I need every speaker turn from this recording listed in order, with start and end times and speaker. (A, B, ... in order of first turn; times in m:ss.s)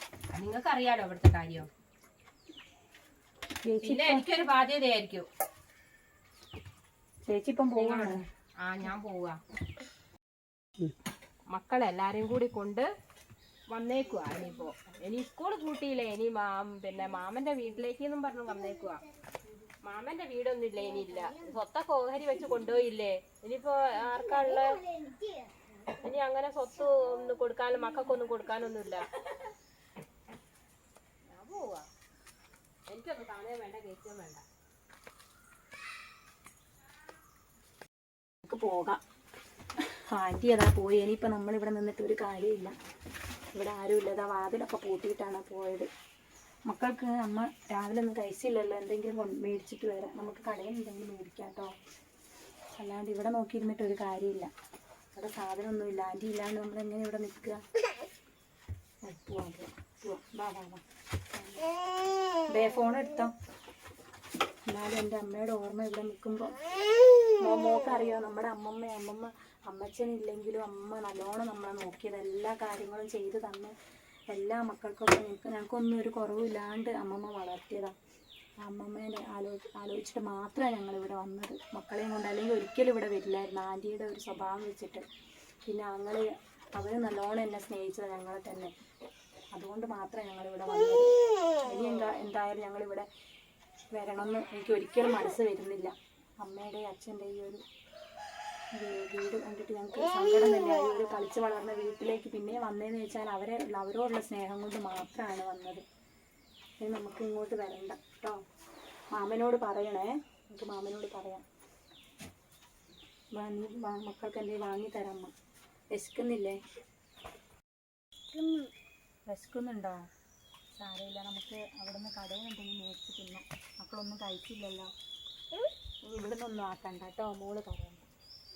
0:00.3-0:01.7 A
0:03.6-0:04.3 B
0:03.8-0:05.3 A
0:07.3-0:08.2 B
0:07.8-0:09.4 A
0:11.5-0:12.9 A
0:13.7-0:19.0 A
0:19.8-0:24.8 A
0:26.0-0:29.1 A
0:31.3-0:31.9 A
0:32.9-0:34.4 A
0:38.4-0:39.0 B
0:39.9-0:42.7 B
0:43.6-0:45.9 B
0:46.7-0:51.7 B
0:52.8-0:54.5 B
0:55.2-0:57.6 B
0:59.0-1:00.8 B
1:01.3-1:01.7 B
1:02.5-1:03.3 B
1:04.7-1:06.6 B
1:07.4-1:13.7 B
1:14.3-1:18.0 B
1:18.6-1:25.0 B
1:25.7-1:28.7 B
1:29.6-1:31.1 B
1:31.7-1:33.1 B
1:33.9-1:37.6 B
1:38.8-1:45.8 B
1:46.8-1:48.4 B
1:49.1-1:51.4 B
1:53.4-1:55.3 B
1:55.9-1:56.6 B
1:59.3-2:00.1 B
2:00.8-2:04.9 B
2:06.1-2:08.1 B